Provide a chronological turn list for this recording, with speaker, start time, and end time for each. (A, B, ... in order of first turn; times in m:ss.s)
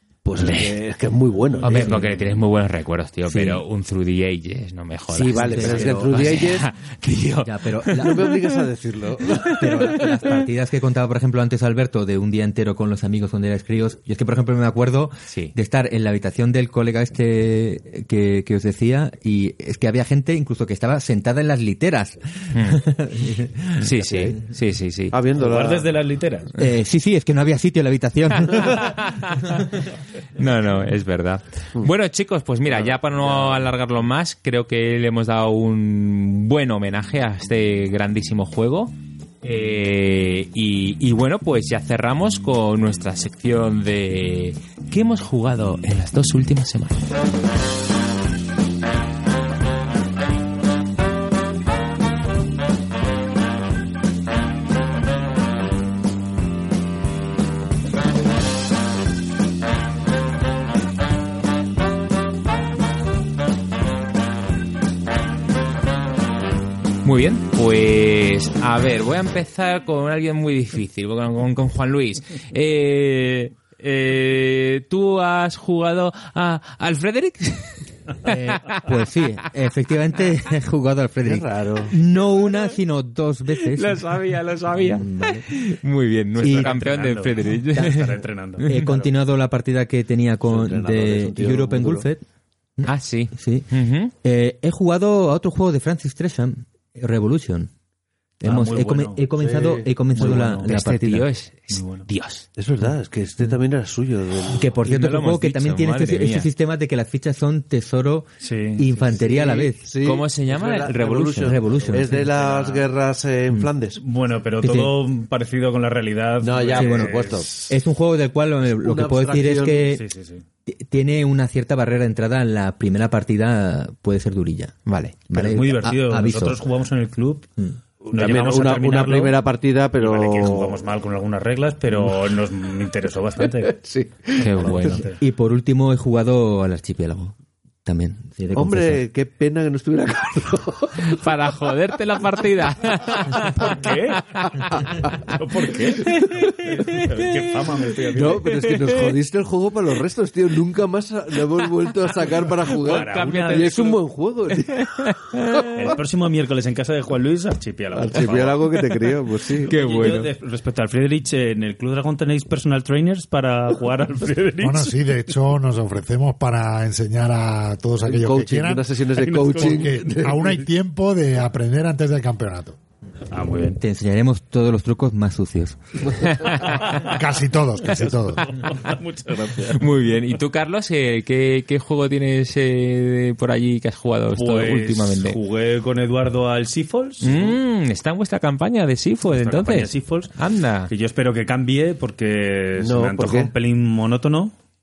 0:00.2-0:02.2 A
0:00.4-0:00.8 B
0:01.6-0:08.5 B
0:03.3-0:03.6 C
0:05.1-0:06.5 C
0:05.2-0:06.7 A
0:07.4-0:08.5 C
0:08.0-0:09.7 A
0:09.5-0:10.4 B
0:09.5-0:24.3 C
0:15.3-0:15.5 B
0:22.5-0:22.8 B
0:23.8-0:25.2 B
0:25.1-0:25.9 A
0:25.4-0:26.5 D
0:26.6-0:29.0 C
0:28.5-0:29.7 B
0:30.4-0:47.0 B
1:07.0-1:18.8 B
1:18.2-1:24.0 C
1:21.2-1:22.0 A
1:23.7-1:28.8 B
1:24.8-1:25.5 C
1:26.4-1:28.8 D
1:26.4-1:26.8 C
1:27.7-1:28.1 C
1:28.6-1:32.2 C
1:30.4-1:32.1 A
1:32.8-1:33.7 C
1:32.8-1:34.1 B
1:34.2-1:37.7 C
1:38.4-1:41.3 C
1:38.4-1:39.3 D
1:39.4-1:39.9 A
1:40.1-1:40.7 D
1:40.7-1:42.5 B
1:41.7-1:42.1 D
1:42.6-1:44.7 A
1:44.5-1:49.8 C
1:44.8-1:46.5 B
1:48.4-1:48.8 D
1:49.1-1:54.0 A
1:50.0-1:51.6 B
1:51.4-1:52.3 C
1:52.0-1:52.9 D
1:54.0-1:57.7 D
1:54.6-1:55.0 C
1:56.4-1:57.7 A
1:56.8-2:00.0 C
1:58.7-1:59.9 A
1:59.9-2:00.4 D
2:00.7-2:04.8 C
2:04.9-2:05.2 B
2:05.3-2:06.6 C
2:05.3-2:07.5 D
2:08.1-2:10.8 A
2:08.1-2:09.4 D
2:10.0-2:13.8 D
2:13.4-2:15.0 A
2:14.4-2:15.0 B
2:14.5-2:15.2 D
2:15.2-2:19.0 C
2:18.6-2:21.3 A
2:21.0-2:24.9 B
2:23.4-2:24.3 D
2:24.5-2:27.0 A
2:25.3-2:28.5 D
2:26.1-2:26.4 B
2:28.0-2:35.7 A
2:32.7-2:34.0 D
2:32.8-2:33.8 B
2:34.7-2:35.7 B
2:35.8-2:38.7 D
2:37.9-2:39.7 A
2:39.6-2:45.1 D
2:39.7-2:40.3 B
2:44.6-2:48.8 E
2:48.0-2:50.6 A
2:49.2-2:49.9 D
2:49.4-2:52.8 E
2:53.3-2:53.8 D
2:53.7-2:55.8 C
2:56.5-2:57.2 D
2:56.8-2:58.4 E
2:57.9-2:59.9 D
2:59.6-3:05.4 B
3:04.3-3:07.6 D
3:07.2-3:10.9 B
3:09.4-3:10.3 D
3:10.9-3:14.5 D
3:12.8-3:13.5 A